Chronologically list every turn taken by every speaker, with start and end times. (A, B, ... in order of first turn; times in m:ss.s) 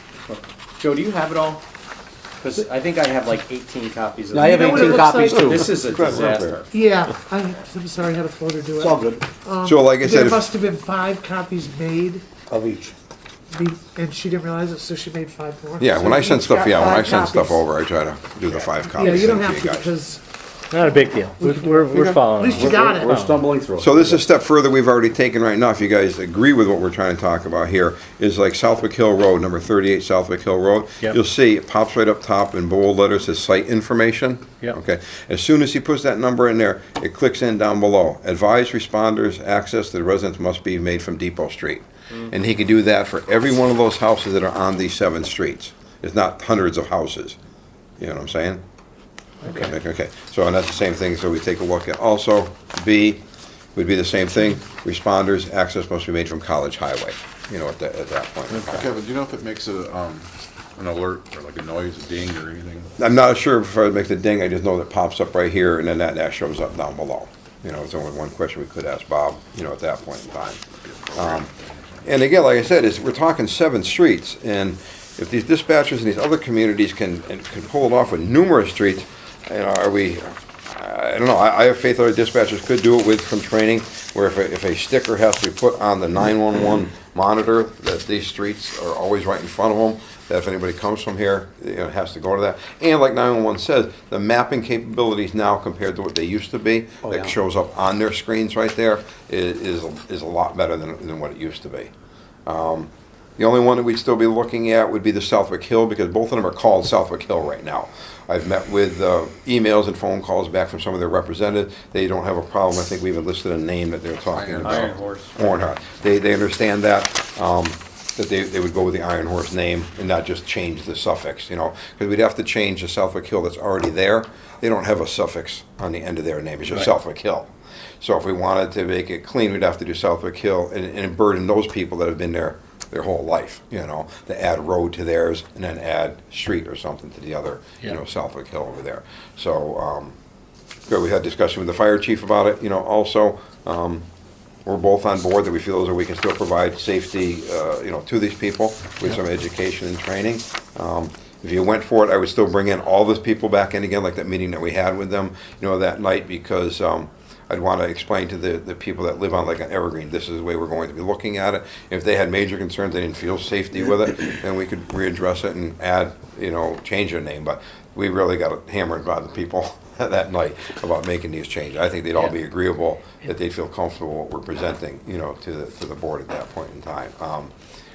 0:00.3-0:01.6 A
0:02.4-0:06.7 A
0:04.3-0:05.9 B
0:04.4-0:05.7 C
0:05.8-0:06.6 D
0:06.7-0:12.2 C
0:08.8-0:09.2 B
0:09.6-0:10.5 D
0:12.5-0:12.9 B
0:13.5-0:17.6 C
0:15.8-0:19.9 D
0:18.9-0:20.2 C
0:20.7-0:23.4 E
0:21.4-0:23.2 C
0:21.9-0:24.2 B
0:23.8-0:47.4 D
0:48.0-0:48.6 D
0:49.4-0:49.7 E
0:49.4-0:53.2 D
0:53.7-0:58.9 D
0:58.7-1:02.9 F
1:03.0-1:10.6 D
1:10.8-1:11.8 F
1:11.2-1:11.5 D
1:12.0-1:41.9 D
1:37.0-1:37.3 B
1:42.4-2:07.5 D
1:54.3-1:55.2 F
2:08.0-2:20.2 D
2:20.9-2:24.1 D
2:24.7-2:57.5 D